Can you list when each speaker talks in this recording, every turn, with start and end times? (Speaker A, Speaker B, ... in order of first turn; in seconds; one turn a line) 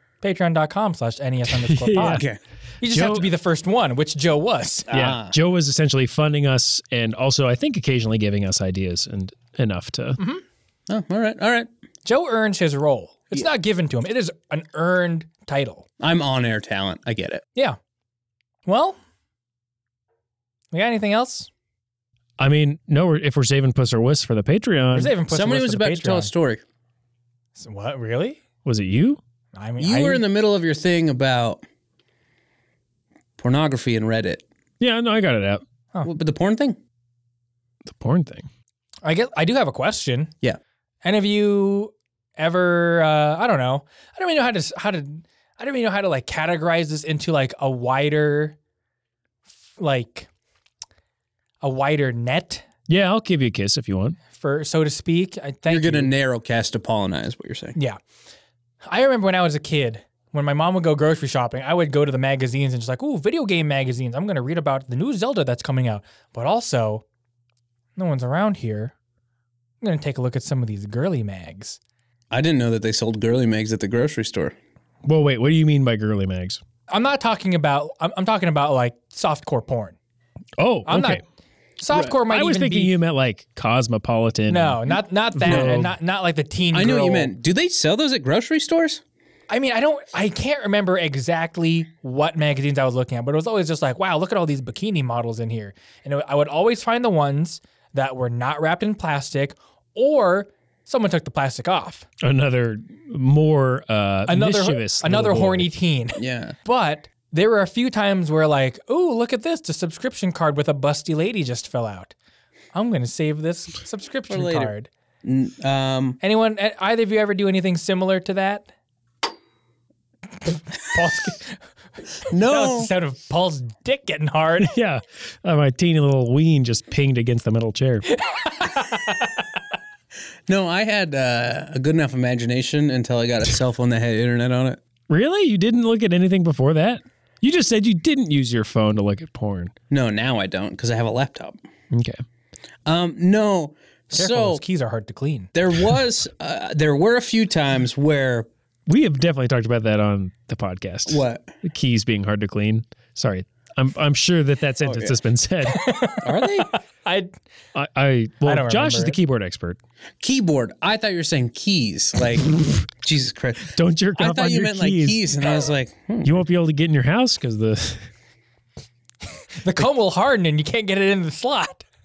Speaker A: 0.2-2.2
Speaker B: 1.6-2.2
Speaker C: 2.1-2.4
Speaker A: 2.8-4.9
Speaker B: 2.9-3.3
Speaker C: 4.9-5.3
Speaker B: 4.9-10.2
Speaker A: 10.2-10.4
Speaker C: 10.9-11.7
Speaker A: 12.0-15.8
Speaker C: 16.0-17.4
Speaker A: 18.6-19.0
Speaker A: 20.7-21.5
Speaker B: 22.4-25.1
Speaker A: 24.9-26.3
Speaker C: 25.3-26.6
Speaker A: 27.6-28.4
Speaker B: 28.6-29.2
Speaker A: 29.5-30.2
Speaker C: 29.8-31.6
Speaker C: 33.4-34.4
Speaker B: 34.8-35.6
Speaker C: 36.0-36.8
Speaker B: 37.9-38.5
Speaker A: 39.0-40.3
Speaker A: 41.0-48.5
Speaker A: 49.8-50.3
Speaker A: 51.6-52.6
Speaker B: 52.9-54.2
Speaker A: 54.3-56.1
Speaker C: 55.7-57.8
Speaker A: 58.8-67.0
Speaker A: 68.0-68.9
Speaker A: 69.8-71.8
Speaker C: 72.3-74.5
Speaker B: 75.0-76.6
Speaker A: 76.9-80.0
Speaker B: 80.6-81.2
Speaker A: 80.9-81.2
Speaker A: 81.8-82.9
Speaker B: 82.2-85.9
Speaker A: 84.5-87.3
Speaker C: 85.5-85.8
Speaker C: 86.7-89.0
Speaker A: 89.5-102.0
Speaker B: 102.2-105.7
Speaker A: 104.3-112.1
Speaker C: 106.2-106.5
Speaker A: 112.7-114.9
Speaker C: 114.3-114.7
Speaker C: 115.2-116.2
Speaker A: 116.2-118.7
Speaker A: 120.4-121.6
Speaker C: 122.3-122.9
Speaker A: 122.4-124.7
Speaker B: 124.6-128.1
Speaker A: 128.2-129.3
Speaker C: 130.5-134.8
Speaker B: 135.1-139.7
Speaker C: 139.9-141.6
Speaker B: 141.9-142.2
Speaker C: 142.8-144.6
Speaker A: 144.1-145.5
Speaker C: 145.5-148.5
Speaker B: 148.9-155.8
Speaker C: 151.1-151.5
Speaker C: 154.8-155.2
Speaker A: 155.7-157.3
Speaker C: 156.2-156.7
Speaker B: 157.7-159.8
Speaker A: 158.4-159.2
Speaker C: 160.2-166.4
Speaker B: 163.7-165.2
Speaker B: 166.2-168.1
Speaker A: 169.6-171.8